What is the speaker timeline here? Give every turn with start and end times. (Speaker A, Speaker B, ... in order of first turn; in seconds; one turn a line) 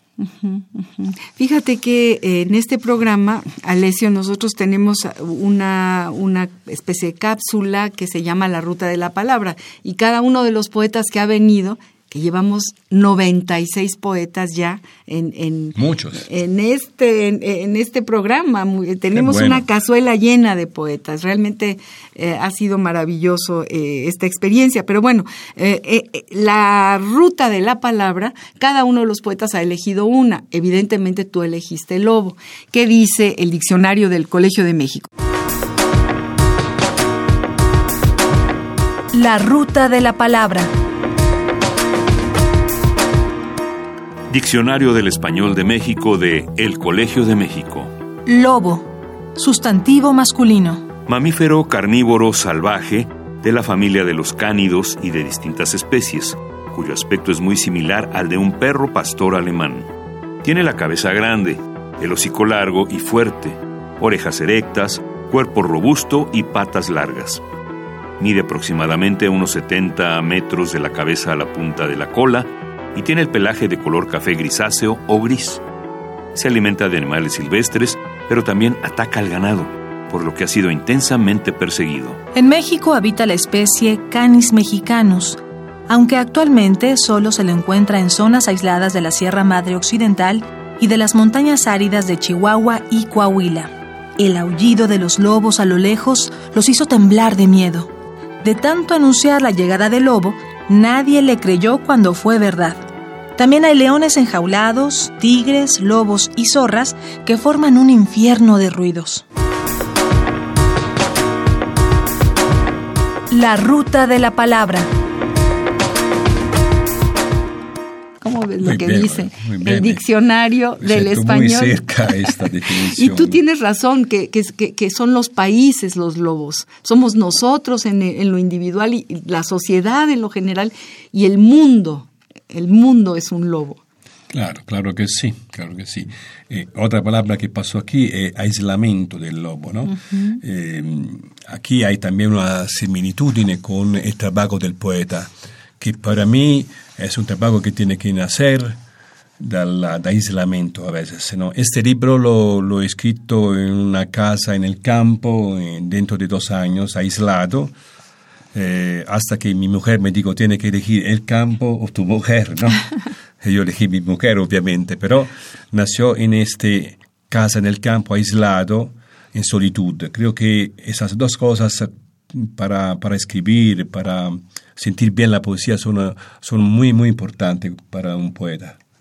Speaker A: 0.2-35.1
Speaker B: 15.8-16.3
Speaker B: 19.1-19.7
Speaker C: 39.1-40.7
Speaker D: 44.3-47.9
Speaker C: 48.3-50.9
Speaker D: 51.1-59.9
Speaker D: 60.4-67.4
Speaker D: 68.2-75.6
Speaker D: 76.3-82.2
Speaker C: 82.3-97.9
Speaker C: 98.4-109.2
Speaker C: 113.3-114.9
Speaker A: 118.2-122.3
Speaker B: 118.6-120.0
Speaker B: 120.8-123.4
Speaker A: 122.9-133.8
Speaker B: 134.3-148.8
Speaker B: 149.4-157.7
Speaker B: 158.5-162.9
Speaker B: 163.4-178.8